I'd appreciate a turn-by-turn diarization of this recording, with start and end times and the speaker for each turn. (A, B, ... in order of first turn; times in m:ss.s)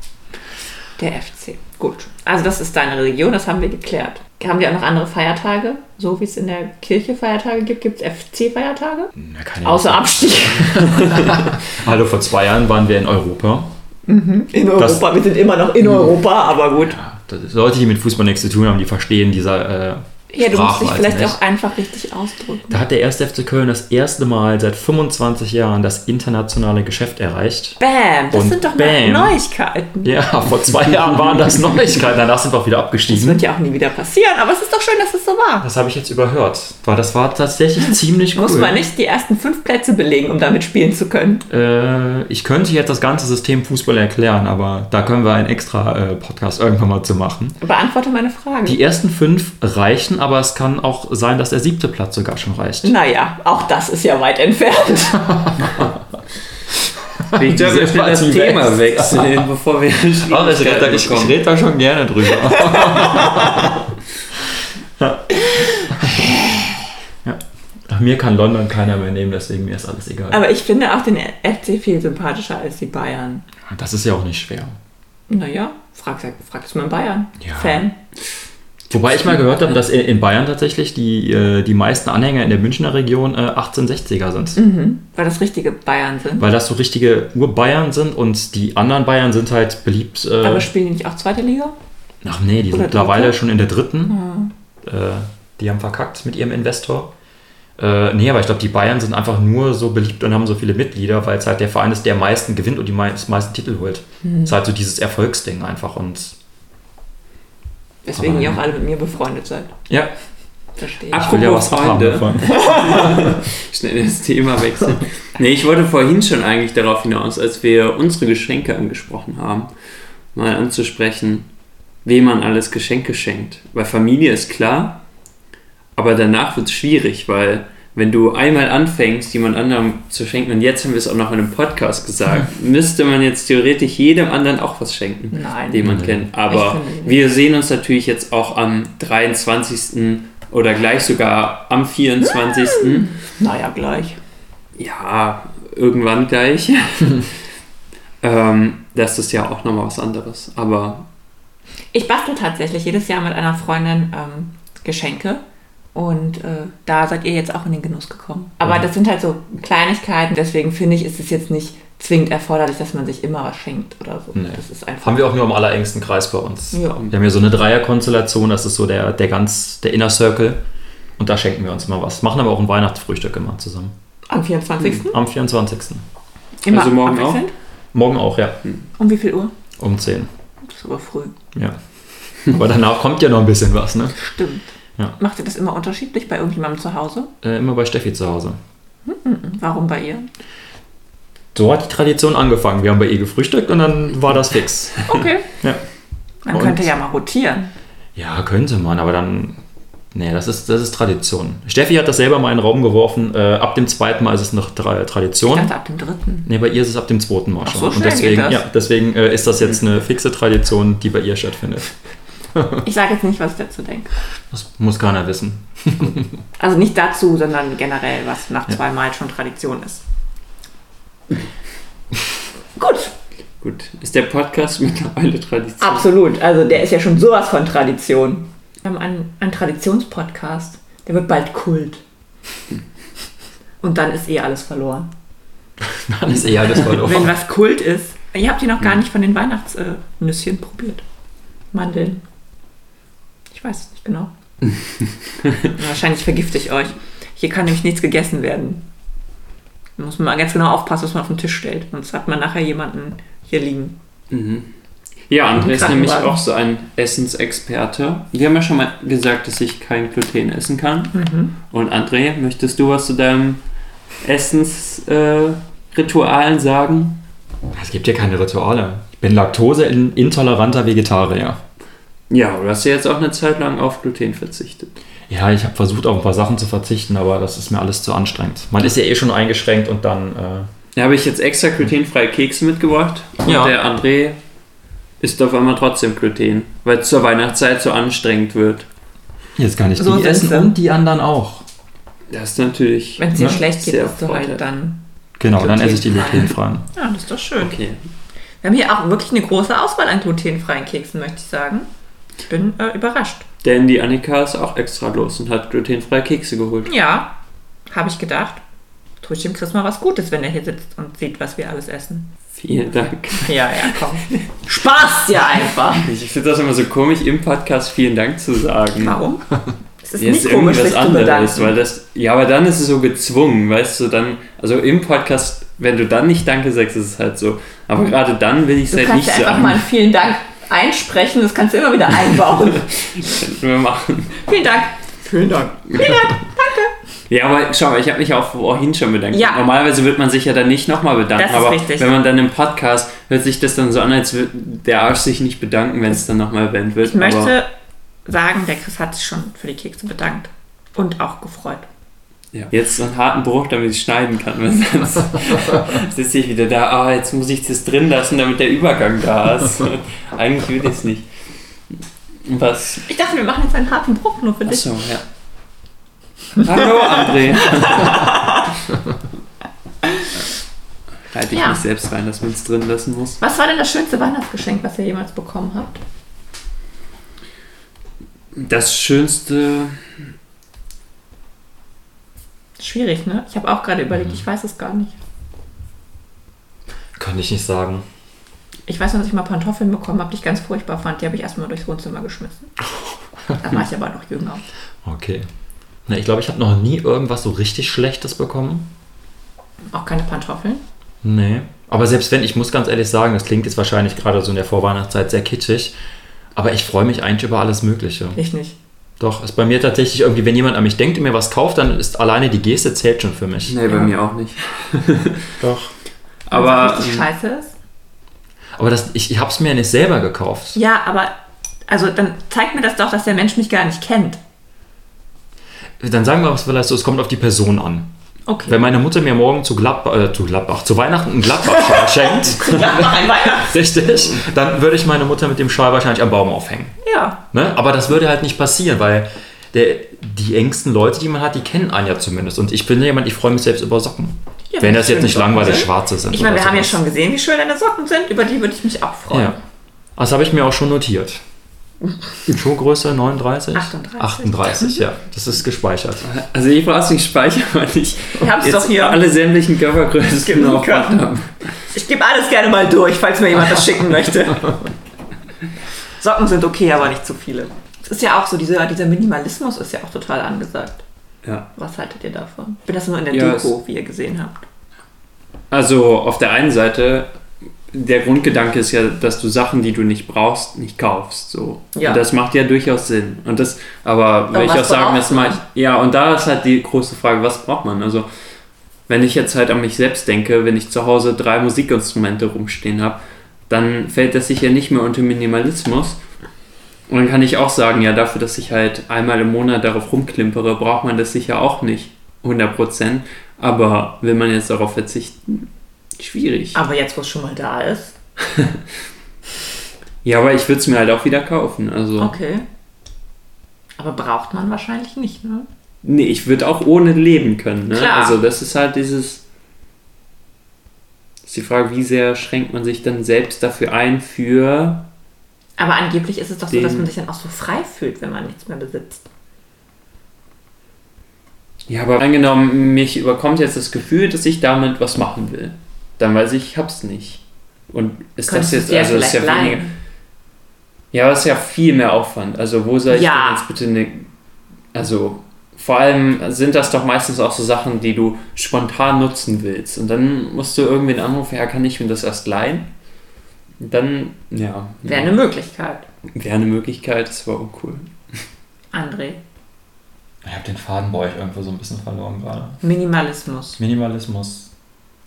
0:01.0-0:09.1 A
0:09.2-0:13.7 B
0:09.6-0:11.5 A
0:14.1-0:17.0 A
0:14.8-0:15.1 B
0:16.9-0:21.4 B
0:20.3-0:22.8 A
0:22.7-0:27.8 B
0:27.8-0:30.1 A
0:28.3-0:29.4 B
0:30.0-0:33.4 B
0:33.1-0:35.7 A
0:35.6-0:38.8 B
0:38.3-0:41.4 A
0:41.5-0:47.6 B
0:47.6-0:48.8 A
0:48.6-0:52.9 B
0:52.8-0:55.5 A
0:57.2-0:59.4 B
0:57.3-1:01.4 C
1:00.3-1:03.9 B
1:02.5-1:03.8 A
1:05.0-1:06.4 B
1:05.4-1:05.9 A
1:07.2-1:10.4 B
1:10.3-1:13.4 A
1:13.7-1:14.8 B
1:15.3-1:18.0 A
1:17.4-1:17.8 B
1:18.9-1:24.6 B
1:19.1-1:19.4 A
1:24.6-1:26.5 A
1:26.4-1:30.7 B
1:30.4-1:31.7 A
1:32.2-1:34.2 B
1:32.7-1:33.4 A
1:34.1-1:34.5 A
1:34.8-1:37.1 B
1:37.8-1:46.4 B
1:44.2-1:44.5 A
1:48.0-1:49.7 A
1:48.2-1:48.6 B
1:50.8-1:51.4 A
1:51.1-1:53.3 B
1:51.1-1:59.7 C
2:00.3-2:01.5 C
2:02.0-2:05.0 C
2:06.0-2:23.1 C
2:15.3-2:17.2 A
2:15.8-2:16.2 B
2:22.6-2:24.2 A
2:24.8-2:27.3 C
2:28.2-2:31.1 C
2:31.9-2:35.4 A
2:35.9-2:45.2 A
2:44.3-2:50.6 B
2:46.7-2:47.1 A
2:51.2-2:53.9 B
2:54.3-2:55.2 A
2:54.9-2:56.0 B
2:56.6-2:57.5 A
2:56.7-2:57.4 C
2:57.9-2:58.6 B
2:59.0-2:59.5 A
2:59.8-3:00.3 B
3:00.6-3:01.3 A
3:02.4-3:04.2 B
3:04.2-3:07.3 A
3:07.4-3:08.6 B
3:09.0-3:10.3 A
3:11.5-3:15.8 B
3:15.0-3:15.5 A
3:16.4-3:17.7 A
3:16.5-3:16.9 B
3:18.2-3:19.6 B
3:20.1-3:25.7 B
3:25.5-3:26.5 A
3:26.4-3:31.9 B
3:27.6-3:28.6 A
3:32.5-3:32.8 B
3:32.8-3:34.1 A
3:34.5-3:36.4 B
3:36.6-3:40.0 A
3:42.8-3:43.1 A
3:43.6-3:46.1 C
3:45.8-3:52.0 A
3:53.8-3:55.1 A
3:55.8-3:57.3 B
3:56.8-4:01.0 A
4:01.7-4:02.2 A
4:03.5-4:04.3 A
4:05.7-4:08.8 A
4:10.0-4:14.0 A
4:14.3-4:14.7 C
4:15.3-4:23.6 C
4:15.6-4:16.4 A
4:21.1-4:21.5 A
4:24.2-4:27.2 C
4:27.7-4:31.6 B
4:32.3-4:34.9 C
4:35.3-4:40.7 B
4:40.9-4:44.4 C
4:43.4-4:43.8 B
4:45.2-4:48.9 C
4:49.6-4:51.6 B
4:50.0-4:50.7 A
4:52.3-4:54.6 C
4:53.2-4:55.0 A
4:55.4-4:56.9 B
4:55.5-4:57.8 A
4:57.6-4:58.0 C
4:58.6-5:01.9 A
5:02.4-5:03.4 A
5:03.6-5:06.9 C
5:06.8-5:07.4 A
5:07.9-5:08.6 A
5:09.2-5:12.3 A
5:12.6-5:14.0 C
5:13.4-5:16.1 A
5:15.9-5:19.2 C
5:19.0-5:19.4 A
5:20.0-5:21.8 A
5:20.2-5:29.8 C
5:28.9-5:32.9 A
5:32.9-5:34.4 C
5:34.4-5:36.9 A
5:37.3-5:47.5 C
5:39.3-5:39.6 A
5:41.4-5:42.1 A
5:47.0-5:47.7 A
5:48.2-5:51.8 A
5:52.5-6:01.3 C
6:02.4-6:03.1 C
6:03.1-6:04.9 A
6:04.6-6:05.2 C
6:06.6-6:08.5 C
6:07.6-6:08.7 A
6:11.3-6:13.4 C
6:11.5-6:11.8 A
6:13.4-6:16.0 A
6:18.6-6:20.1 C
6:22.8-6:25.1 A
6:27.2-6:28.0 B
6:28.9-6:32.7 A
6:32.9-6:33.8 B
6:33.6-6:34.6 A
6:35.0-6:35.4 B
6:36.1-6:38.9 B
6:39.9-6:40.8 A
6:41.2-6:45.9 B
6:46.5-6:48.4 B
6:48.3-6:48.8 A
6:49.2-6:53.8 B
6:53.7-6:55.5 C
6:55.6-6:55.9 B
6:56.5-6:57.3 C
6:56.5-6:57.7 A
6:58.8-7:00.8 B
7:00.7-7:01.3 A
7:01.9-7:04.4 A
7:06.0-7:08.1 B
7:08.5-7:08.8 A
7:08.7-7:16.9 B
7:11.7-7:13.8 A
7:17.0-7:17.4 A
7:17.5-7:27.0 B
7:24.7-7:29.6 A
7:29.3-7:29.6 B
7:30.2-7:31.4 B
7:32.5-7:36.2 B
7:33.7-7:35.0 A
7:36.2-7:41.7 C
7:38.4-7:39.2 A
7:40.4-7:41.3 A
7:41.9-7:44.9 A
7:46.2-7:51.0 A
7:51.4-7:51.7 C
7:51.7-7:54.6 A
7:53.3-7:53.8 C
7:55.7-7:57.4 C
7:57.9-8:08.3 C
8:01.9-8:02.2 A
8:04.5-8:05.6 A
8:09.1-8:16.2 C
8:17.1-8:26.8 C
8:26.7-8:28.1 A
8:28.5-8:28.8 C
8:30.2-8:32.4 C
8:32.2-8:32.6 A
8:34.0-8:35.7 A
8:36.0-8:39.4 C
8:37.9-8:38.4 A
8:41.4-8:45.1 C
8:45.8-8:49.3 A
8:46.7-8:47.1 C
8:51.9-8:59.8 C
8:58.5-8:59.9 A
9:01.1-9:04.3 C
9:03.1-9:03.6 A
9:04.9-9:12.9 C
9:13.8-9:15.3 C
9:15.0-9:16.0 A
9:16.3-9:18.1 C
9:18.9-9:19.4 A
9:20.4-9:22.8 B
9:22.8-9:23.8 A
9:23.8-9:24.7 B